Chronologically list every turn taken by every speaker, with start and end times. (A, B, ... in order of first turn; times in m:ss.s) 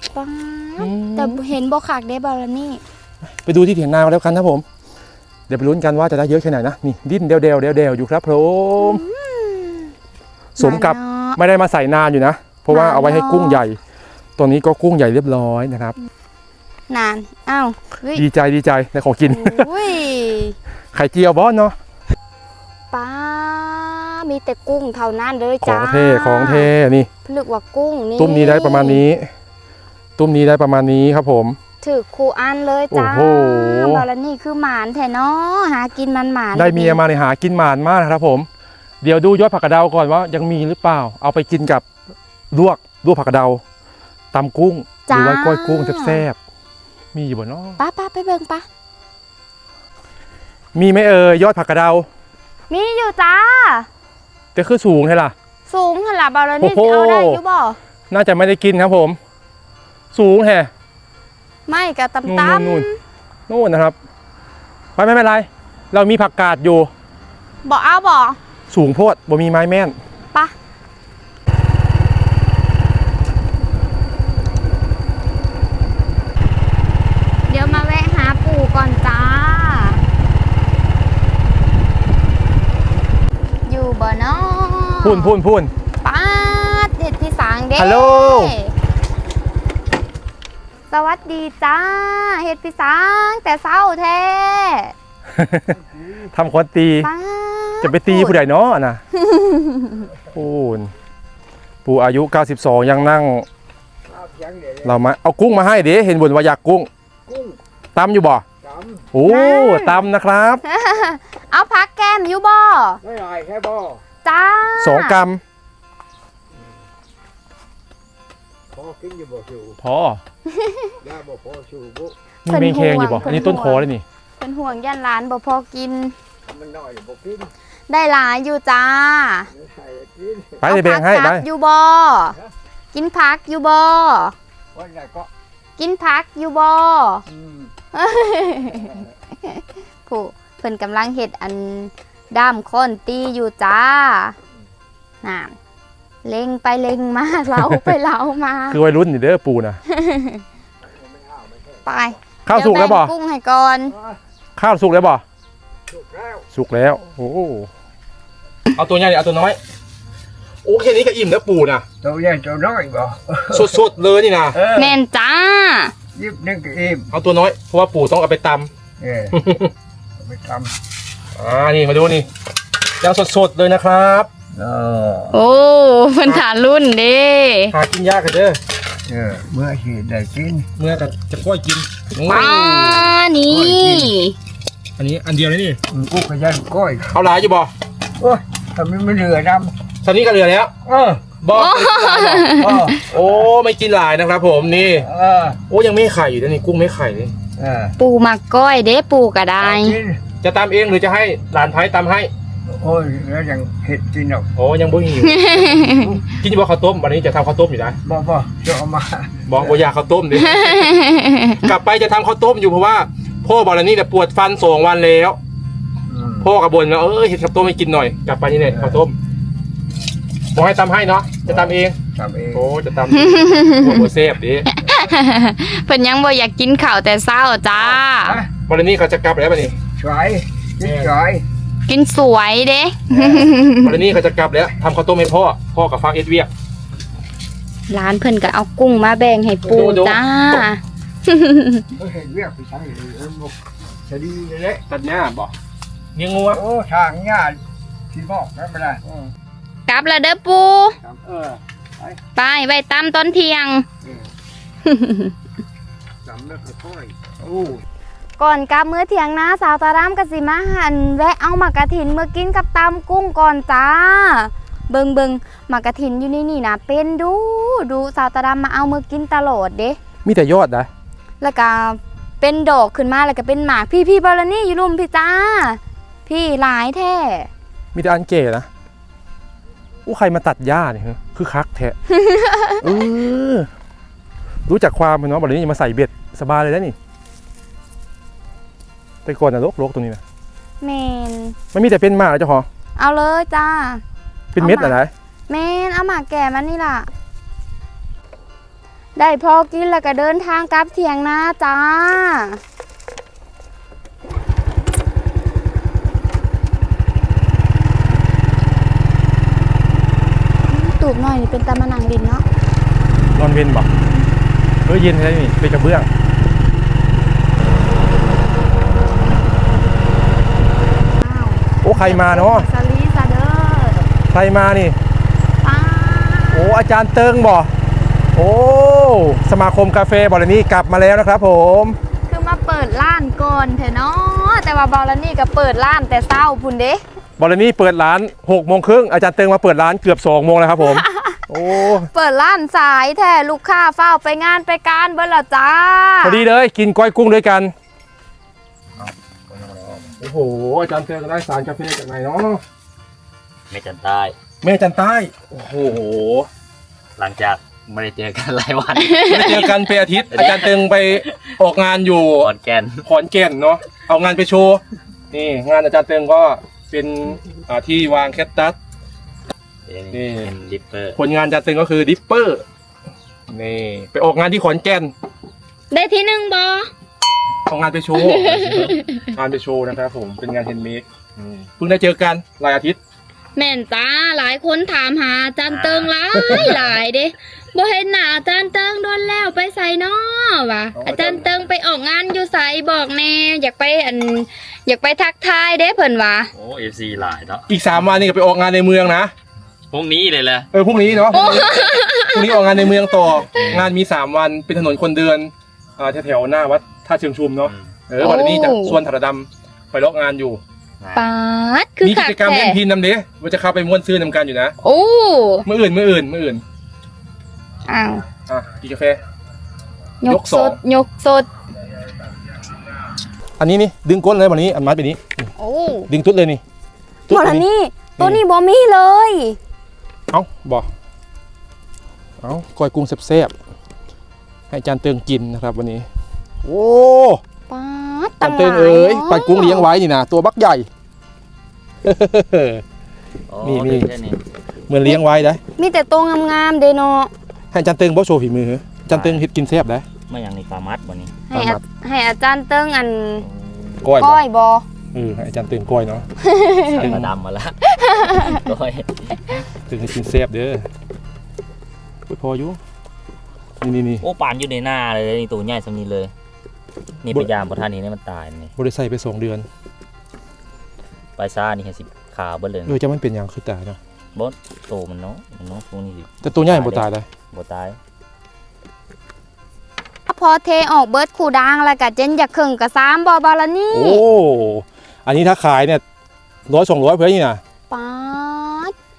0:00.1-0:02.8 A
0:00.8-0:01.4 B
0:03.4-0:04.6 B
0:05.5-0:09.0 B
0:08.8-0:09.9 A
0:10.6-0:11.4 A
0:10.6-0:13.8 B
0:12.7-0:13.6 A
0:14.4-0:16.0 B
0:16.9-0:18.2 A
0:18.2-0:19.7 B
0:19.3-0:20.6 A
0:20.9-0:21.8 B
0:22.9-0:26.7 A
0:25.6-0:27.1 B
0:27.2-0:29.0 A
0:28.2-0:29.3 B
0:30.2-0:31.6 B
0:31.8-0:37.0 A
0:32.9-0:34.1 B
0:36.6-0:38.5 B
0:39.0-0:41.8 B
0:42.5-0:43.6 B
0:44.3-0:46.4 B
0:45.1-0:46.2 A
0:47.1-0:47.8 B
0:47.8-0:48.7 A
0:50.8-0:52.1 B
0:52.7-0:53.9 A
0:54.6-0:55.4 B
0:55.7-0:57.8 A
0:56.6-0:57.4 B
0:58.1-0:59.2 B
1:00.1-1:00.7 B
1:01.7-1:03.0 A
1:02.2-1:02.8 B
1:03.5-1:04.0 B
1:05.0-1:06.9 B
1:07.6-1:08.4 A
1:08.7-1:10.0 B
1:17.5-1:20.0 A
1:23.7-1:25.4 A
1:25.0-1:25.7 B
1:26.0-1:28.7 A
1:27.8-1:28.6 B
1:30.9-1:34.9 A
1:35.3-1:35.8 B
1:35.7-1:36.3 C
1:36.3-1:37.1 B
1:37.0-1:38.4 A
1:37.8-1:39.0 B
1:39.2-1:40.1 A
1:40.3-1:40.9 B
1:41.8-1:43.5 B
1:44.1-1:45.0 C
1:44.8-1:46.9 B
1:47.3-1:47.6 C
1:48.0-1:48.4 B
1:48.6-1:49.1 C
1:49.1-1:50.6 B
1:49.2-1:50.1 A
1:50.6-1:53.0 A
1:53.0-1:54.0 C
1:54.2-1:55.2 A
1:54.8-1:55.4 B
1:58.7-1:59.8 C
1:59.8-2:00.2 B
2:00.5-2:01.0 A
2:01.0-2:02.2 C
2:02.4-2:04.0 B
2:02.5-2:03.8 A
2:04.4-2:06.2 A
2:06.5-2:07.5 C
2:07.9-2:09.5 A
2:09.5-2:10.7 C
2:10.6-2:11.4 B
2:10.6-2:12.4 A
2:12.9-2:14.4 A
2:14.7-2:15.3 C
2:15.8-2:17.2 A
2:17.3-2:17.7 C
2:17.9-2:24.4 A
2:25.2-2:25.6 A
2:26.2-2:28.8 A
2:27.6-2:27.9 B
2:28.7-2:29.8 B
2:29.9-2:30.4 A
2:30.8-2:31.9 C
2:31.9-2:34.0 A
2:32.4-2:33.1 B
2:34.6-2:35.2 B
2:35.9-2:36.5 C
2:36.5-2:37.7 B
2:38.8-2:39.6 B
2:40.6-2:41.8 B
2:42.0-2:43.8 C
2:43.5-2:44.6 B
2:44.5-2:45.0 C
2:44.8-2:45.9 A
2:46.1-2:47.1 C
2:47.1-2:48.7 B
2:49.0-2:49.4 C
2:49.3-2:49.7 B
2:50.2-2:50.7 C
2:51.4-2:52.3 B
2:53.0-2:54.3 B
2:54.5-2:55.4 C
2:55.3-2:57.7 A
2:57.7-2:58.6 B
2:59.1-3:00.7 C
3:00.8-3:03.1 B
3:02.2-3:04.4 A
3:03.5-3:04.2 C
3:05.0-3:05.8 B
3:05.9-3:07.1 C
3:07.1-3:07.7 B
3:08.2-3:09.7 C
3:10.0-3:10.7 B
3:10.8-3:11.3 C
3:11.4-3:15.1 B
3:11.5-3:13.0 A
3:12.5-3:13.1 C
3:14.9-3:15.6 C
3:15.7-3:17.4 B
3:17.6-3:18.0 C
3:18.0-3:20.0 A
3:19.6-3:20.2 C
3:20.4-3:22.3 B
3:22.7-3:24.5 C
3:24.6-3:28.0 B
3:25.2-3:26.1 A
3:25.9-3:26.2 C
3:28.0-3:29.8 C
3:29.5-3:31.0 B
3:30.4-3:31.6 A
3:31.6-3:35.4 B
3:36.1-3:36.5 C
3:36.4-3:39.2 B
3:38.7-3:39.0 C
3:40.5-3:42.0 B
3:41.5-3:42.6 C
3:42.5-3:44.7 B
3:43.1-3:44.1 A
3:44.7-3:48.4 A
3:48.1-3:48.5 C
3:48.7-3:49.8 B
3:50.0-3:51.4 C
3:50.8-3:51.1 B
3:51.9-3:54.0 A
3:53.1-3:53.5 C
3:53.8-3:56.5 B
3:57.9-4:01.9 A
3:59.6-4:00.6 B
4:02.0-4:04.8 C
4:04.8-4:05.5 B
4:06.2-4:06.6 B
4:06.5-4:09.3 C
4:09.9-4:11.0 A
4:11.0-4:12.2 C
4:12.4-4:13.8 A
4:14.0-4:14.3 C
4:14.8-4:15.3 A
4:16.2-4:17.9 C
4:18.4-4:30.0 A
4:30.2-4:30.9 B
4:31.4-4:37.5 A
4:37.9-4:38.7 B
4:40.0-4:42.0 B
4:42.1-4:42.8 A
4:42.8-4:43.7 B
4:44.7-4:47.0 B
4:49.2-4:50.2 B
4:50.8-4:51.6 A
4:51.7-4:52.7 B
4:53.0-4:54.0 A
4:54.5-4:55.1 B
4:54.6-4:55.0 A
4:55.5-4:57.1 A
4:59.2-5:02.6 A
5:10.7-5:12.4 A
5:13.4-5:13.9 B
5:14.8-5:16.1 B
5:21.1-5:24.0 A
5:21.8-5:22.7 B
5:24.3-5:25.0 B
5:25.6-5:26.8 A
5:26.5-5:27.7 B
5:28.4-5:32.0 B
5:32.3-5:37.0 A
5:37.4-5:42.1 B
5:40.8-5:46.4 A
5:46.2-5:47.7 B
5:49.0-5:50.2 D
5:50.2-5:52.6 B
5:53.7-5:54.4 D
5:54.6-5:56.5 B
5:57.2-5:59.7 D
5:59.0-5:59.7 A
5:59.2-6:02.5 B
6:00.3-6:01.4 D
6:02.4-6:03.0 D
6:03.0-6:08.8 B
6:09.9-6:11.2 D
6:10.1-6:10.5 B
6:11.2-6:12.6 B
6:13.5-6:15.1 B
6:15.9-6:16.9 A
6:17.7-6:23.0 B
6:18.2-6:19.3 A
6:18.5-6:19.0 D
6:23.6-6:36.5 A
6:25.7-6:26.8 D
6:26.3-6:26.8 B
6:31.0-6:31.5 B
6:36.5-6:37.7 D
6:37.7-6:39.3 B
6:39.9-6:40.7 D
6:40.7-6:50.6 B
6:41.3-6:43.1 A
6:43.5-6:43.9 D
6:48.2-6:49.0 A
6:51.0-6:51.3 D
6:51.2-6:52.8 A
6:52.0-6:54.7 B
6:54.8-6:55.7 A
6:55.6-6:56.6 B
6:57.9-6:58.2 A
6:58.5-6:59.2 B
7:00.2-7:01.5 A
7:00.2-7:00.8 B
7:03.6-7:05.5 B
7:05.6-7:06.1 A
7:06.1-7:06.6 B
7:07.3-7:07.6 B
7:07.3-7:09.6 A
7:10.3-7:10.9 B
7:12.4-7:13.5 B
7:14.7-7:16.1 B
7:16.6-7:17.4 B
7:17.7-7:19.9 A
7:18.4-7:20.9 B
7:22.0-7:22.8 B
7:23.5-7:24.4 D
7:23.6-7:24.1 B
7:24.9-7:25.6 B
7:25.8-7:27.3 A
7:27.7-7:30.0 B
7:29.1-7:29.4 D
7:30.3-7:31.4 D
7:31.5-7:33.5 A
7:31.5-7:31.8 B
7:33.4-7:34.1 D
7:34.0-7:34.4 B
7:34.2-7:34.8 A
7:35.1-7:36.2 B
7:36.4-7:37.2 A
7:36.8-7:39.5 D
7:37.0-7:37.3 B
7:37.9-7:38.7 A
7:39.9-7:40.9 B
7:42.3-7:42.8 B
7:43.8-7:44.2 B
7:44.2-7:46.3 D
7:47.2-7:48.7 D
7:48.8-7:49.7 B
7:51.4-7:53.0 D
7:52.9-7:54.0 B
7:54.4-7:58.0 D
7:56.4-7:57.3 B
8:00.3-8:04.2 A
8:03.9-8:06.0 B
8:06.7-8:07.6 B
8:07.9-8:08.9 A